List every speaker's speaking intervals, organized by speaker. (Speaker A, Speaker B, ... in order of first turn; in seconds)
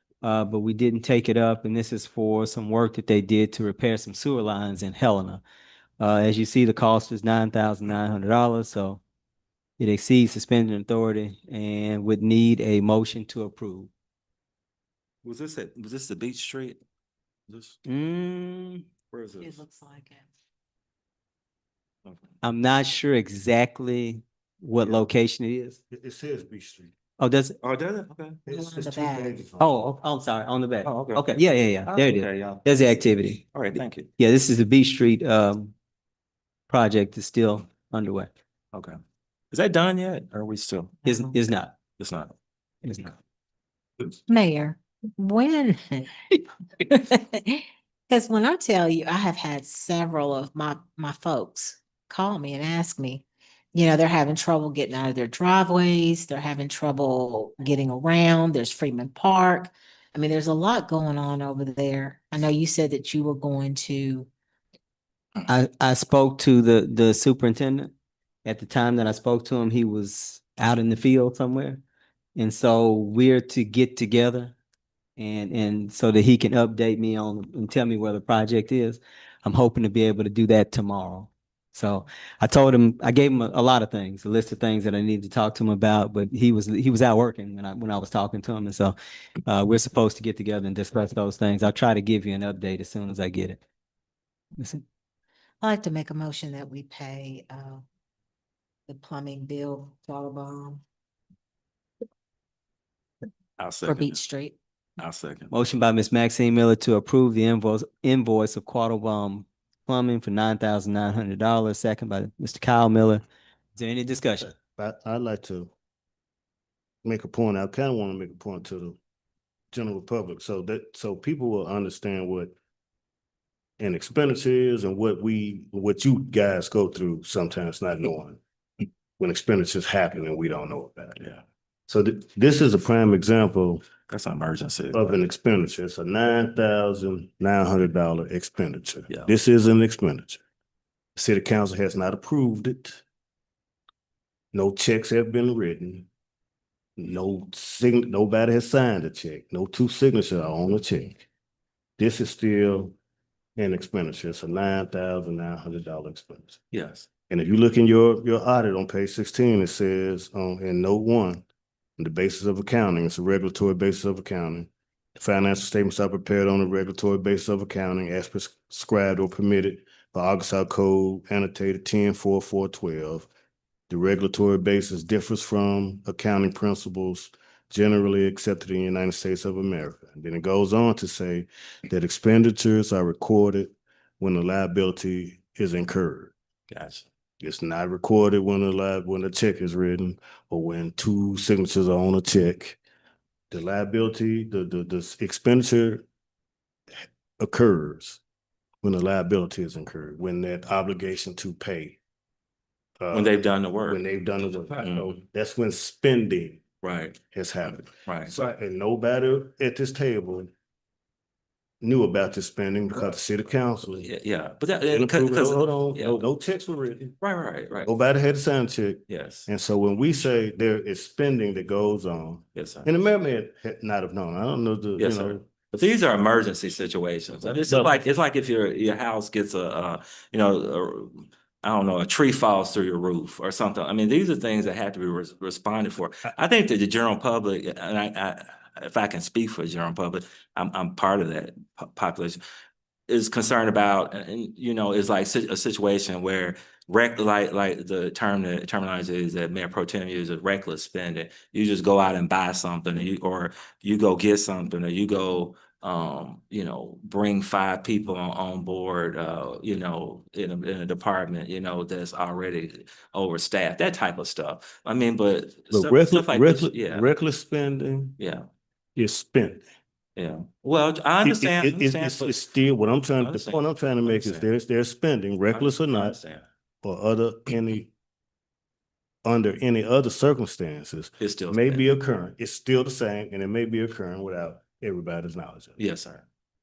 Speaker A: 0.2-5.4, 6.0-9.0, 9.8-13.9, 17.9-18.9, 22.4-25.8, 27.2-27.6, 29.6-33.4, 34.2-35.7, 36.7-38.3, 41.0-41.7, 42.8-43.1, 65.5-67.9, 68.4-71.8, 72.3-74.5, 75.2-88.9, 89.5-93.6, 94.6-94.8, 105.5-113.2, 113.8-114.5
Speaker B: 15.2-16.8, 17.5-17.8, 19.1-19.6, 27.6-28.4, 30.8-32.6, 33.5-34.1, 39.5-40.9, 42.0-42.3, 103.6-104.2, 105.0-105.5, 134.1-135.2, 156.7-157.1, 186.7-187.0, 203.1-204.0, 204.8-205.1, 206.8-207.2, 207.7-208.3, 213.9-216.2, 217.2-217.9, 219.1-219.5, 222.5-222.9, 225.0-242.4, 243.1-267.1, 268.2-268.5, 270.1-272.3, 273.2-274.4, 275.5-276.4, 281.2-281.9, 285.8-286.2
Speaker C: 19.4-20.3, 28.5-29.4, 44.3-64.3, 95.6-97.8, 98.9-100.8, 103.8-104.5
Speaker D: 25.9-26.9, 28.4-29.7, 114.5-115.7, 117.0-119.0, 119.7-122.5, 123.8-128.4, 129.2-131.3, 131.9-133.8, 134.9-140.4, 141.2-143.0, 144.5-146.1, 147.0-151.2, 152.0-152.9, 153.6-156.6, 157.3-161.4, 162.0-173.3, 173.9-186.3, 187.4-192.8, 193.5-196.0, 196.9-198.2, 198.8-202.0, 203.0-206.6, 207.3-210.5, 211.8-214.1, 214.9-217.2, 217.8-225.4, 227.7-228.0, 265.7-268.2, 268.9-269.6, 271.2-276.2, 276.8-277.9, 279.2-285.8